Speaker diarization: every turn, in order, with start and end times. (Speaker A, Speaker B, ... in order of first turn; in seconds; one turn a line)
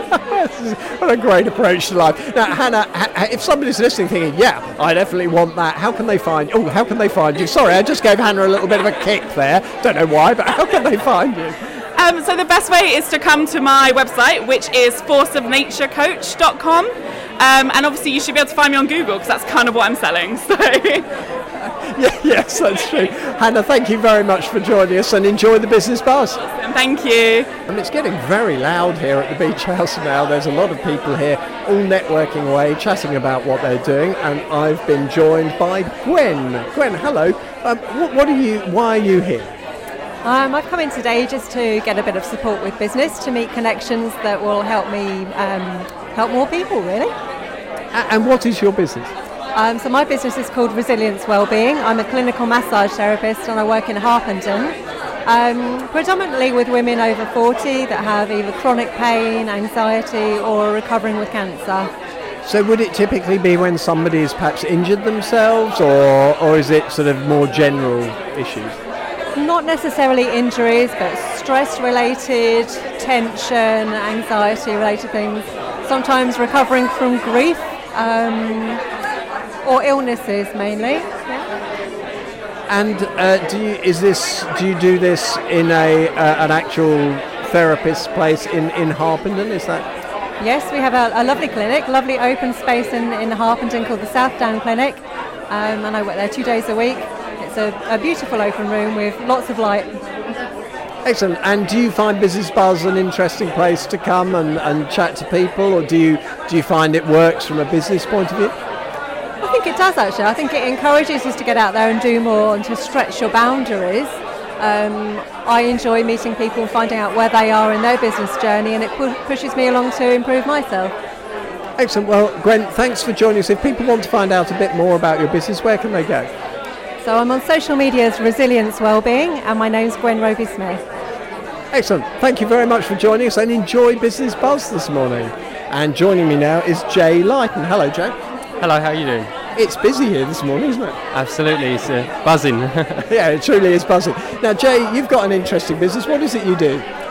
Speaker A: 0.3-11.6
Speaker B: 12.0-21.1
Speaker A: 21.6-26.4
Speaker B: 26.4-27.5
Speaker A: 27.7-39.5
Speaker C: 40.2-47.1
Speaker A: 47.9-49.1
Speaker C: 49.5-61.9
Speaker A: 62.4-68.8
Speaker C: 69.3-78.8
Speaker C: 79.6-81.4
Speaker A: 82.7-89.8
Speaker C: 90.4-100.0
Speaker A: 101.0-108.5
Speaker C: 109.4-120.9
Speaker A: 121.8-126.3
Speaker C: 127.0-130.8
Speaker A: 131.7-138.1
Speaker D: 138.6-139.3
Speaker A: 139.6-141.0
Speaker D: 141.1-143.1
Speaker A: 143.1-146.8